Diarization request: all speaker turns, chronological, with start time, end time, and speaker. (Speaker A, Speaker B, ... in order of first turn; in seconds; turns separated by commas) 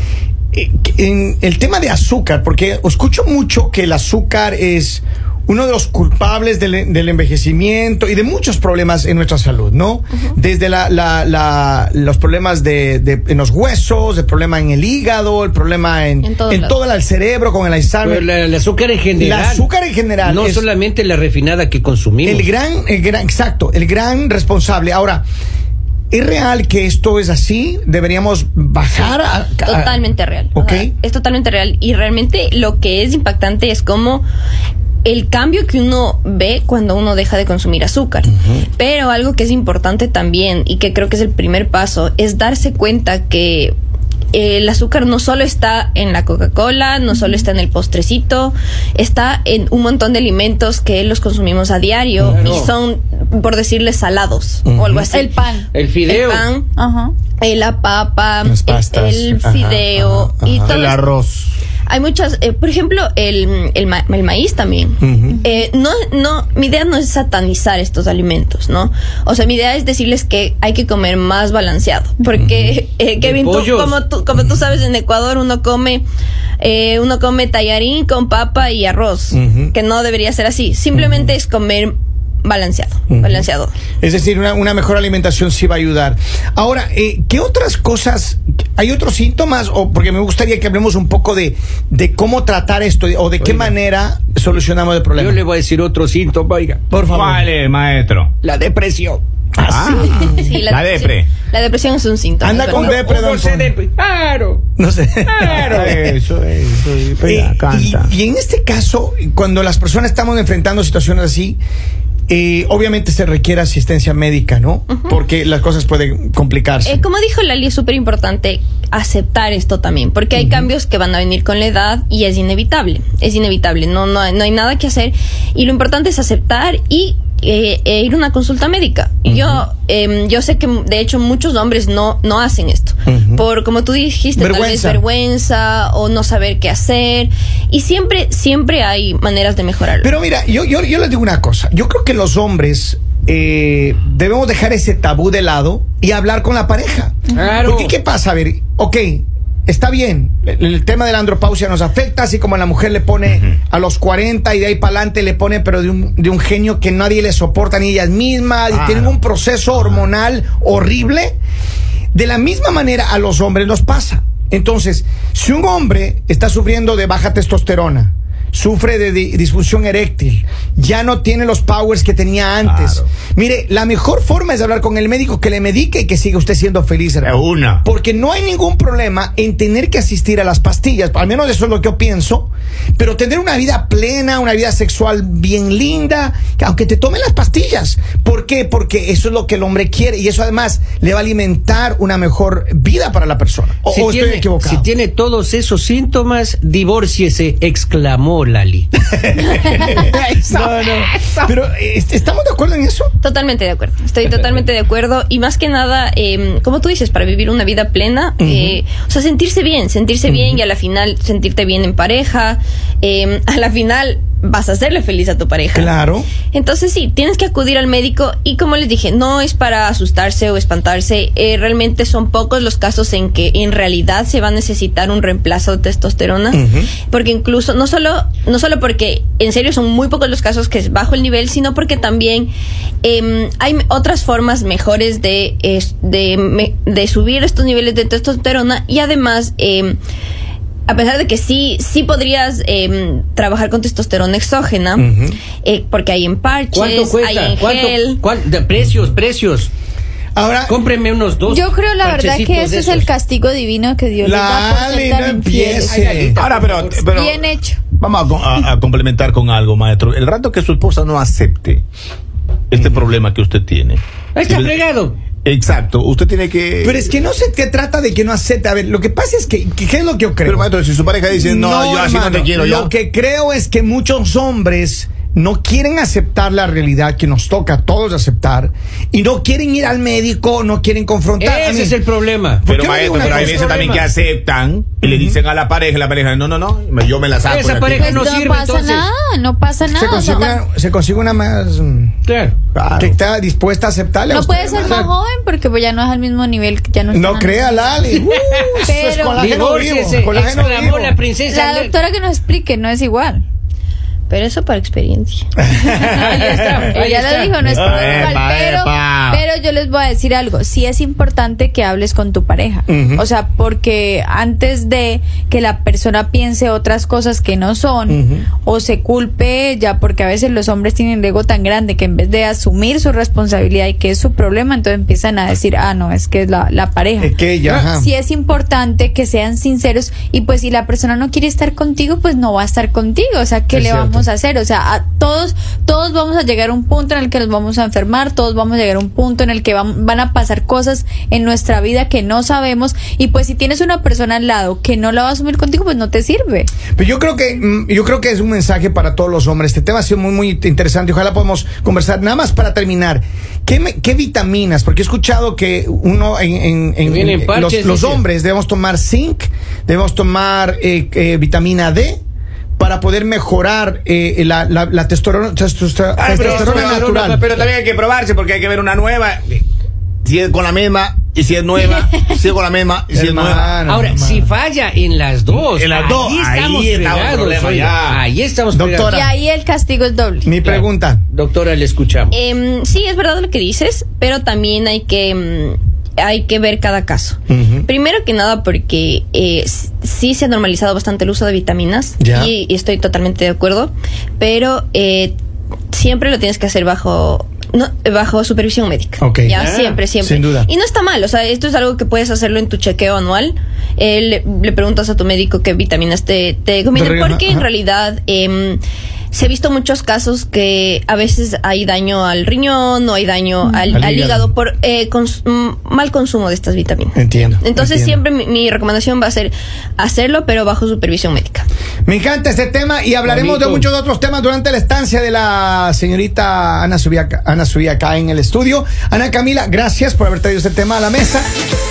Speaker A: 0.5-18.3, Speaker B: 16.2-16.8, Speaker C: 18.0-19.7, Speaker A: 19.2-20.6, Speaker C: 20.2-22.5, Speaker A: 22.2-25.2, Speaker A: 26.1-30.9, Speaker B: 29.6-34.2, Speaker B: 35.0-43.7, Speaker A: 38.3-38.6, Speaker B: 44.3-55.3, Speaker C: 52.2-52.7, Speaker A: 54.6-55.1, Speaker D: 55.1-55.7, Speaker C: 55.7-56.5, Speaker B: 56.0-56.7, Speaker D: 56.7-57.1, Speaker B: 57.4-61.1, Speaker A: 58.4-60.8, Speaker E: 60.6-61.5, Speaker B: 61.9-76.0, Speaker A: 65.0-65.4, Speaker A: 72.3-72.8, Speaker C: 73.2-74.0, Speaker B: 76.6-83.7, Speaker A: 79.3-79.7, Speaker A: 80.9-81.3, Speaker A: 83.1-83.5, Speaker A: 84.0-95.4, Speaker C: 93.4-93.7, Speaker C: 95.2-96.9, Speaker A: 96.9-97.5, Speaker E: 97.1-98.3, Speaker C: 98.4-99.2, Speaker A: 99.6-100.5, Speaker E: 99.7-101.3, Speaker B: 100.3-103.0, Speaker A: 102.4-103.7, Speaker C: 102.7-104.6, Speaker A: 104.8-105.9, Speaker C: 105.3-106.1, Speaker E: 105.5-108.1, Speaker A: 107.2-111.6, Speaker A: 112.3-117.0, Speaker B: 116.8-140.1, Speaker A: 120.3-120.7, Speaker A: 129.2-129.6, Speaker A: 133.1-133.4, Speaker A: 134.3-135.0, Speaker A: 140.0-161.4, Speaker C: 147.3-147.9, Speaker E: 158.7-159.2, Speaker E: 159.7-160.1, Speaker A: 162.1-194.9, Speaker E: 172.6-173.1, Speaker E: 177.2-177.8, Speaker C: 193.9-198.9, Speaker A: 199.3-203.1, Speaker C: 201.2-201.4, Speaker B: 203.2-215.9, Speaker A: 208.4-208.8, Speaker A: 210.3-210.6, Speaker A: 215.7-216.3, Speaker B: 216.5-232.5, Speaker A: 226.5-226.9, Speaker B: 233.0-240.0, Speaker B: 240.9-245.1, Speaker A: 245.0-245.4, Speaker B: 245.6-248.2, Speaker C: 246.7-249.7, Speaker A: 250.3-250.8, Speaker C: 250.7-253.1, Speaker D: 251.5-256.1, Speaker A: 254.2-256.4, Speaker C: 255.9-257.0, Speaker E: 256.4-257.4, Speaker D: 257.1-257.8, Speaker E: 258.0-261.8, Speaker E: 262.7-264.8, Speaker C: 264.3-265.2, Speaker E: 265.4-267.1, Speaker A: 266.8-270.7, Speaker E: 270.4-272.9, Speaker A: 271.3-282.0, Speaker C: 281.4-282.6, Speaker A: 282.6-284.0, Speaker E: 282.6-288.3, Speaker C: 283.1-284.0, Speaker A: 285.0-285.4, Speaker C: 287.4-289.1, Speaker D: 287.9-290.6, Speaker A: 289.9-292.1, Speaker C: 292.3-292.6, Speaker E: 292.7-293.1, Speaker A: 292.9-295.1, Speaker D: 294.3-298.1, Speaker A: 297.1-301.1, Speaker C: 298.2-298.8, Speaker D: 298.9-299.6, Speaker C: 299.4-301.9, Speaker D: 301.5-303.4, Speaker B: 304.3-305.5, Speaker A: 305.6-306.8, Speaker C: 306.1-307.6, Speaker D: 306.5-327.3, Speaker E: 307.6-309.4, Speaker A: 307.7-308.3, Speaker A: 312.9-313.2, Speaker A: 318.1-318.5, Speaker A: 327.2-328.1, Speaker D: 327.9-346.7, Speaker A: 333.7-334.2, Speaker A: 346.9-362.2, Speaker C: 357.0-358.2, Speaker A: 362.8-367.4, Speaker E: 366.1-369.6, Speaker C: 366.2-367.7, Speaker E: 370.2-373.8, Speaker A: 373.1-374.5, Speaker C: 373.9-379.1, Speaker E: 375.5-378.2, Speaker A: 378.7-379.3, Speaker D: 379.1-380.5, Speaker A: 380.4-381.2, Speaker C: 380.6-382.4, Speaker B: 382.3-395.3, Speaker A: 387.5-387.9, Speaker A: 392.2-392.5, Speaker B: 395.9-408.8, Speaker A: 399.2-399.6, Speaker C: 399.6-400.0, Speaker A: 400.2-400.7, Speaker A: 406.9-407.7, Speaker B: 409.3-421.7, Speaker A: 413.9-414.5, Speaker A: 417.1-418.2, Speaker A: 422.1-431.5, Speaker C: 423.2-423.8